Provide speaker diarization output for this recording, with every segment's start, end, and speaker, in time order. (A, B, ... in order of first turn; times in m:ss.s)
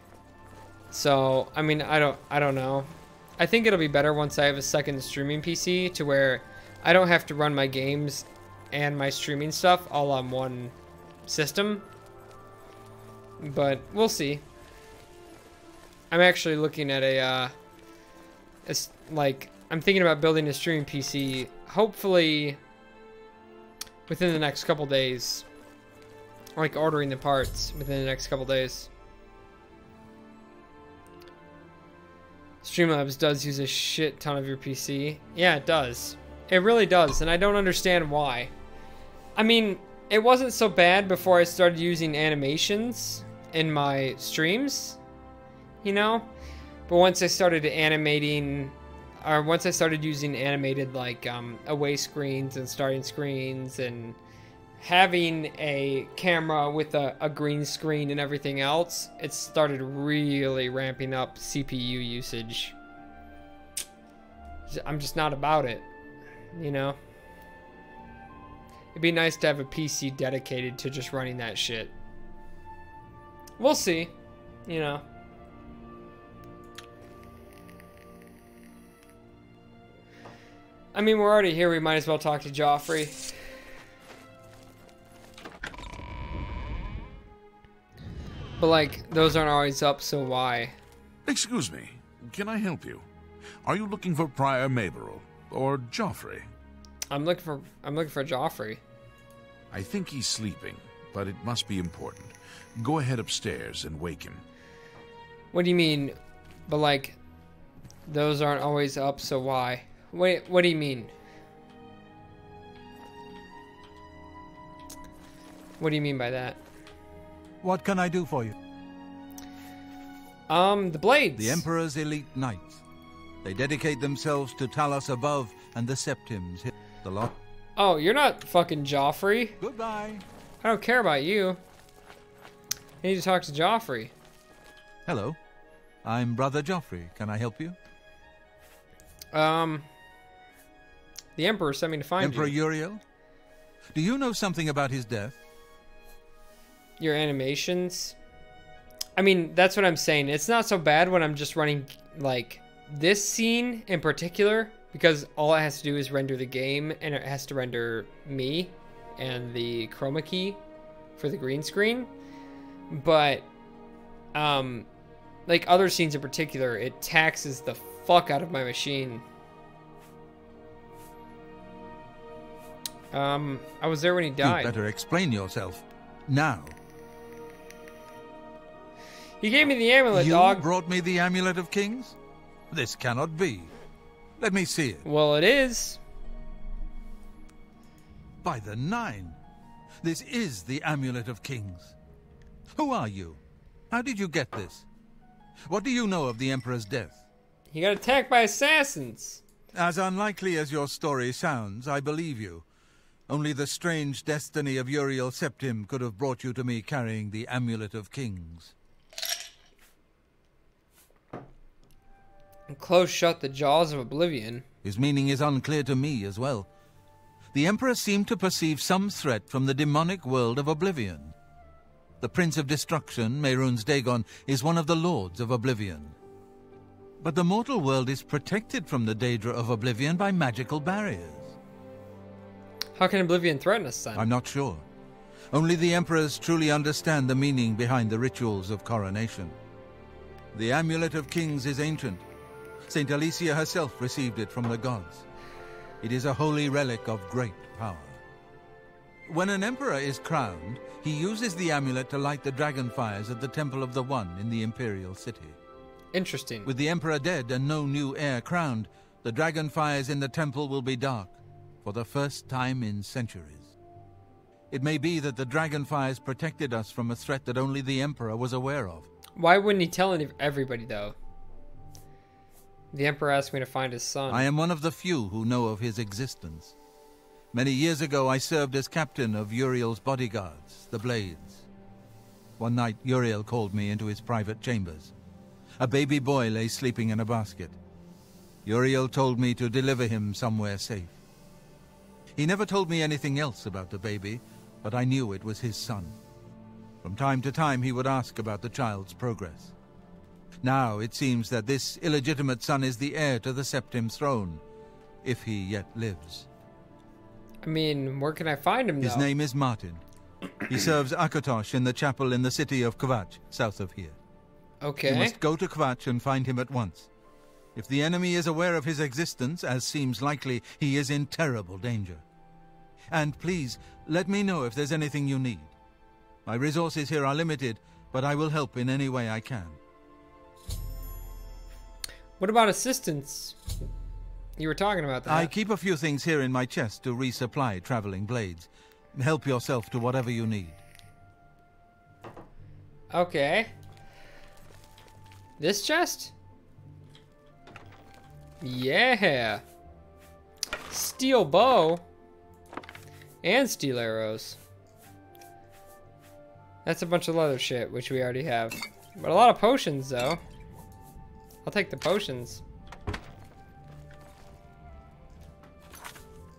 0:00.9-0:10.7 A
0:11.3-0:11.9 A
0:13.4-0:14.4 A
0:16.1-0:17.5 A
0:18.6-0:22.6 A
0:24.1-0:25.5 A
0:26.6-0:28.9 A
0:32.6-0:38.5 A
0:39.4-0:45.0 A
0:45.8-0:46.3 A
0:46.9-0:54.2 A
0:54.8-1:02.8 A
1:04.7-1:05.9 A
1:06.5-1:07.0 A
1:08.9-1:11.9 A
1:13.6-1:14.1 A
1:14.7-1:15.0 A
1:20.9-1:23.3 A
1:28.6-1:30.8 A
1:31.3-1:33.0 B
1:33.6-1:36.5 B
1:37.1-1:38.8 A
1:39.7-1:44.4 B
1:45.5-1:47.2 A
1:48.1-1:51.1 A
1:55.8-1:56.6 A
1:57.6-1:58.6 C
2:00.5-2:01.6 A
2:01.4-2:02.8 C
2:03.4-2:07.4 C
2:07.8-2:09.6 A
2:09.6-2:10.2 C
2:10.6-2:11.6 A
2:13.0-2:14.1 A
2:15.1-2:15.4 C
2:16.0-2:17.8 C
2:19.3-2:19.9 A
2:21.4-2:22.6 A
2:22.2-2:23.0 C
2:23.9-2:25.4 C
2:27.0-2:28.2 A
2:29.2-2:40.6 A
2:41.2-2:42.1 A
2:42.9-2:43.5 A
2:44.3-2:44.9 A
2:45.5-2:49.2 A
2:53.1-2:54.8 A
2:54.4-2:56.8 C
2:59.4-3:00.7 A
3:00.1-3:02.2 C
3:02.7-3:03.7 C
3:04.4-3:05.0 C
3:05.0-3:06.0 A
3:08.4-3:09.4 C
3:10.0-3:12.0 C
3:12.8-3:14.9 C
3:15.7-3:17.2 C
3:17.7-3:19.4 A
3:19.7-3:22.6 C
3:23.3-3:28.7 C
3:32.7-3:34.6 A
3:34.8-3:36.7 C
3:37.5-3:41.4 C
3:42.2-3:46.2 C
3:47.2-3:51.6 C
3:53.0-3:54.3 A
3:54.2-3:54.8 C
3:55.5-3:59.6 C
4:00.5-4:02.2 C
4:02.9-4:05.2 C
4:06.0-4:08.2 C
4:09.3-4:15.6 C
4:16.1-4:16.7 A
4:16.6-4:23.7 C
4:24.7-4:29.1 C
4:29.4-4:31.2 A
4:32.9-4:34.5 A
4:34.3-4:36.7 C
4:37.5-4:41.6 C
4:42.6-4:45.1 C
4:45.8-4:47.8 C
4:48.6-4:51.2 C
4:52.4-4:56.2 C
4:57.0-4:59.7 C
5:00.6-5:04.6 C
5:05.2-5:06.5 C
5:07.6-5:09.3 A
5:09.0-5:10.0 C
5:10.7-5:14.2 C
5:14.8-5:15.4 A
5:15.1-5:17.1 C
5:17.8-5:22.2 C
5:23.1-5:25.7 C
5:26.4-5:29.8 C
5:32.4-5:33.6 A
5:34.6-5:35.5 A
5:35.3-5:40.8 C
5:43.1-5:43.7 A
5:45.6-5:46.3 A
5:48.6-5:49.6 A
5:50.9-5:52.0 A
5:53.4-5:54.6 A
5:56.8-6:00.4 A
6:01.6-6:02.6 A